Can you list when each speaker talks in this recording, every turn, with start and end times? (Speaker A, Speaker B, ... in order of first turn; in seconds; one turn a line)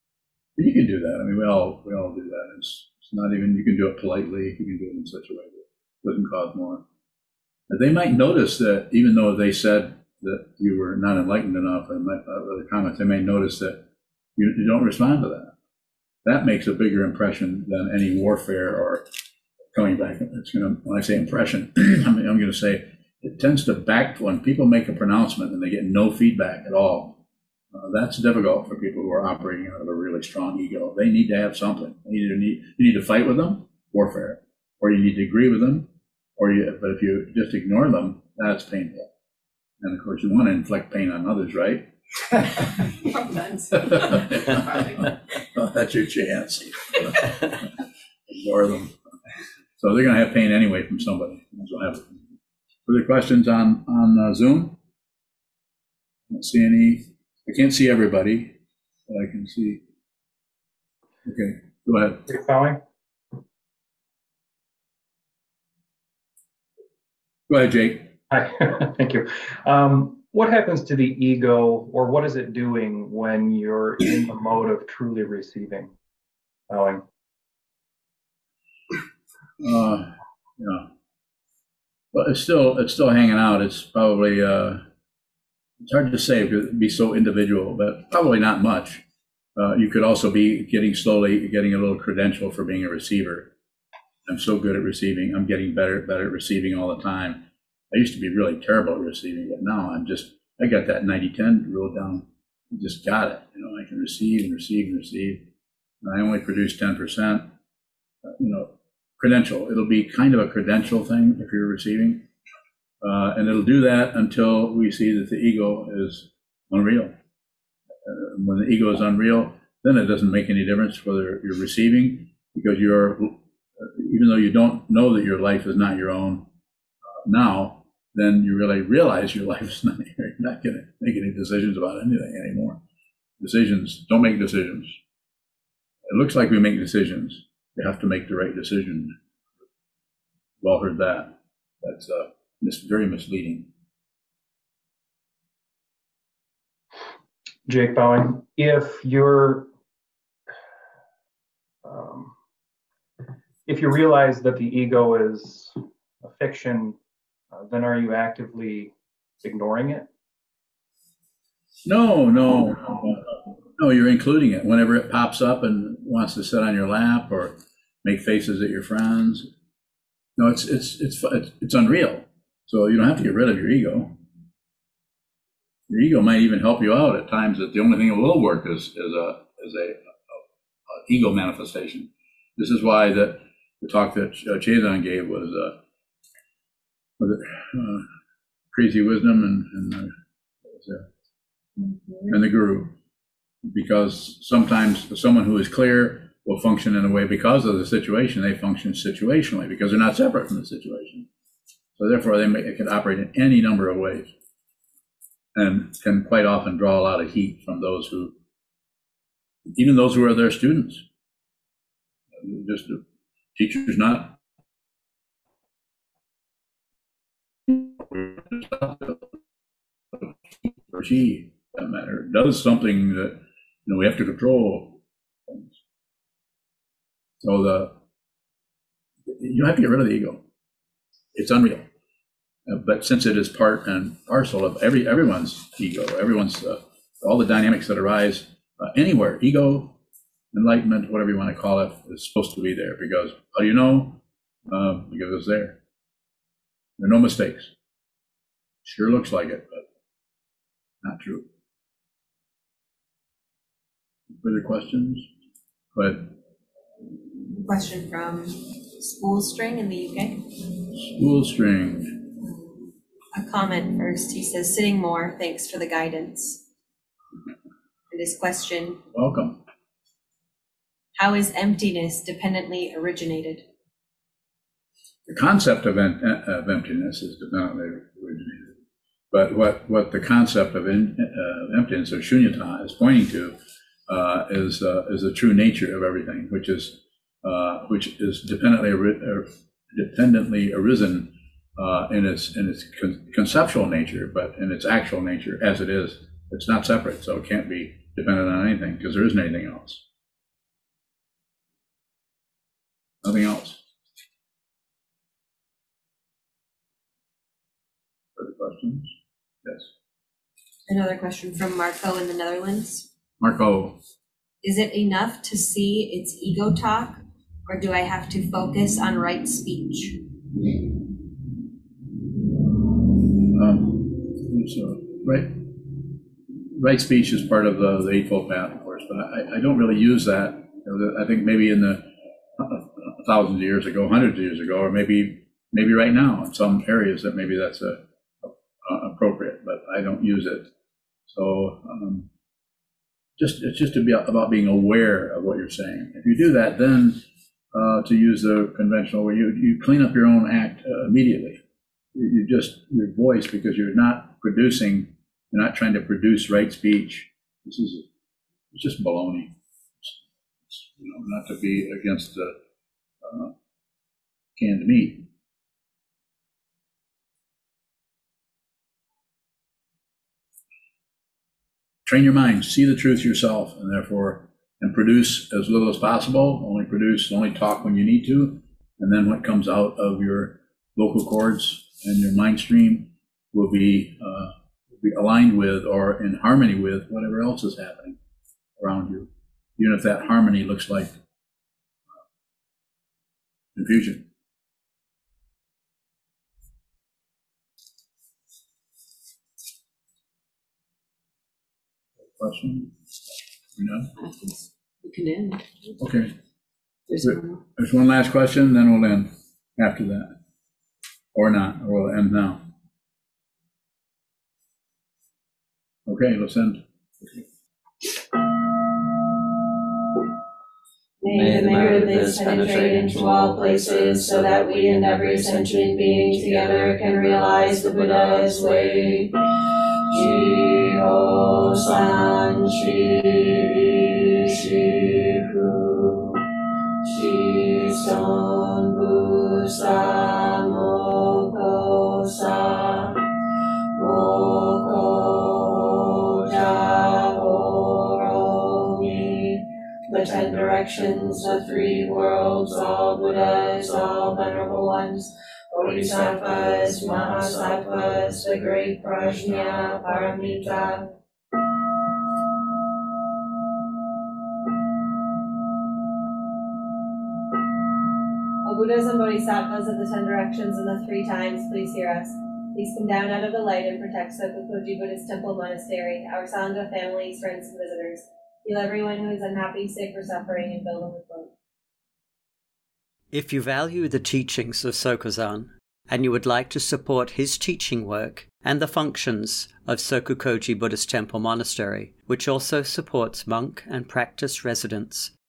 Speaker A: 0.6-6.8
Speaker A: 7.7-13.8
Speaker A: 14.4-15.5
Speaker A: 16.2-19.0
Speaker A: 19.7-27.2
Speaker A: 27.7-39.1
Speaker A: 39.8-41.9
Speaker B: 43.1-44.2
Speaker A: 43.7-47.4
Speaker A: 48.3-48.9
Speaker A: 49.8-52.3
Speaker A: 52.9-54.7
Speaker A: 56.3-58.5
Speaker A: 59.1-59.8
Speaker A: 61.2-62.2
Speaker C: 62.3-62.8
Speaker A: 67.5-68.1
Speaker C: 68.3-75.9
Speaker C: 76.7-77.0
Speaker A: 79.6-80.9
Speaker A: 82.1-84.8
Speaker A: 85.8-89.0
Speaker A: 89.5-93.5
Speaker A: 94.2-105.4
Speaker A: 106.0-107.5
Speaker A: 108.2-112.2
Speaker A: 113.0-117.1
Speaker A: 118.0-126.5
Speaker A: 127.2-132.8
Speaker A: 133.4-135.0
Speaker A: 136.1-139.1
Speaker A: 140.6-143.7
Speaker C: 147.7-149.7
Speaker C: 151.8-152.3
Speaker C: 153.7-157.0
Speaker C: 157.5-160.1
Speaker A: 161.8-169.5
Speaker A: 170.4-174.2
Speaker A: 175.9-180.4
Speaker A: 181.1-185.8
Speaker A: 187.2-188.0
Speaker A: 188.7-190.1
Speaker A: 190.7-191.1
Speaker A: 192.3-192.9
Speaker A: 193.7-201.3
Speaker A: 202.0-204.3
Speaker A: 205.5-208.3
Speaker A: 209.7-211.0
Speaker A: 212.4-213.0
Speaker A: 213.6-214.4
Speaker A: 217.7-219.3
Speaker A: 220.1-225.8
Speaker A: 227.4-227.9
Speaker A: 229.3-230.4
Speaker A: 231.3-231.8
Speaker A: 232.7-240.0
Speaker A: 240.5-245.8
Speaker A: 247.0-247.7
Speaker A: 248.8-249.8
Speaker A: 251.0-251.4
Speaker A: 254.4-255.3
Speaker A: 255.9-256.3
Speaker D: 257.5-260.4
Speaker A: 260.9-262.3
Speaker D: 262.4-262.7
Speaker D: 263.3-266.6
Speaker D: 268.1-269.0
Speaker A: 269.1-269.6
Speaker D: 271.2-273.7
Speaker A: 275.3-278.7
Speaker A: 279.3-283.6
Speaker A: 284.1-300.0
Speaker A: 303.2-303.8
Speaker A: 308.4-309.1
Speaker A: 309.6-309.9
Speaker D: 310.9-313.1
Speaker A: 313.4-314.0
Speaker D: 314.6-320.2
Speaker A: 323.5-325.6
Speaker A: 326.7-340.7
Speaker A: 341.3-342.3
Speaker A: 343.4-347.2
Speaker A: 347.7-351.6
Speaker A: 352.1-358.0
Speaker A: 358.7-362.5
Speaker A: 363.2-363.5
Speaker A: 364.6-365.3
Speaker A: 372.0-388.2
Speaker A: 388.8-391.1
Speaker A: 393.8-394.2
Speaker A: 402.4-402.9
Speaker A: 403.8-404.1
Speaker B: 404.2-405.7
Speaker A: 406.0-406.3
Speaker B: 407.1-407.4
Speaker A: 407.2-410.3
Speaker A: 411.3-412.6
Speaker A: 416.1-416.8
Speaker E: 421.2-429.3
Speaker E: 430.1-436.4
Speaker E: 437.0-443.2
Speaker E: 443.9-461.1
Speaker D: 468.6-481.5
Speaker F: 483.3-495.3